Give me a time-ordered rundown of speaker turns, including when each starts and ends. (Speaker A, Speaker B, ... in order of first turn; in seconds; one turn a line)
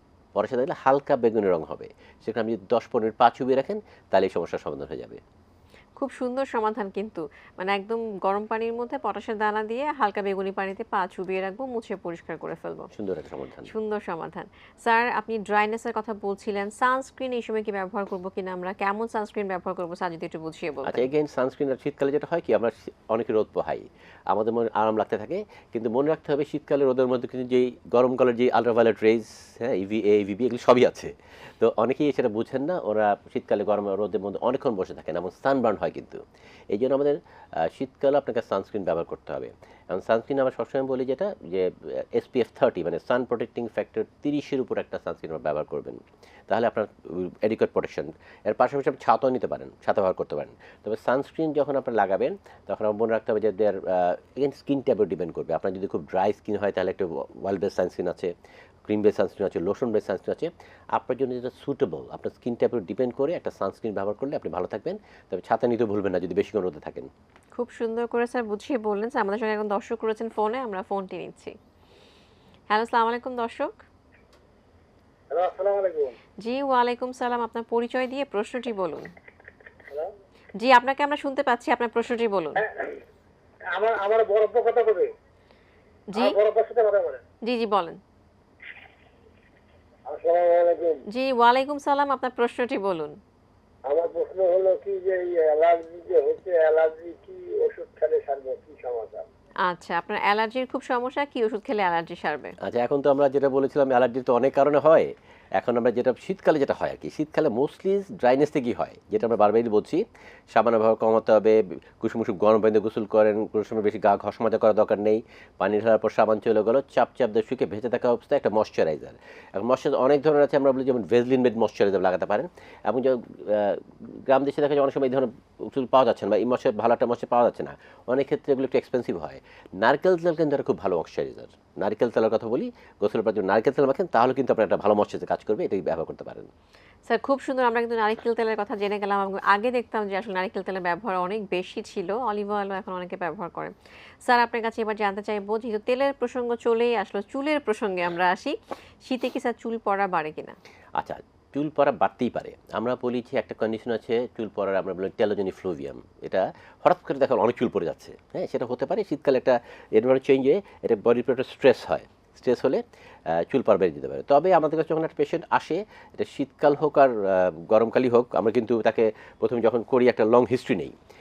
Speaker A: 0.3-5.2
Speaker B: 6.0-12.9
Speaker A: 12.9-13.7
Speaker B: 13.7-21.1
Speaker A: 20.9-58.3
Speaker A: 58.9-67.1
Speaker B: 67.5-71.5
Speaker B: 72.7-73.8
Speaker C: 75.3-76.2
Speaker B: 76.4-79.1
Speaker B: 80.6-82.6
Speaker C: 82.6-83.0
Speaker C: 83.7-85.1
Speaker C: 86.2-87.2
Speaker B: 87.5-88.0
Speaker C: 90.1-91.0
Speaker B: 91.1-93.2
Speaker C: 93.9-99.3
Speaker B: 99.7-102.6
Speaker A: 102.6-136.5
Speaker B: 137.1-143.7
Speaker B: 144.2-150.6
Speaker A: 151.0-170.9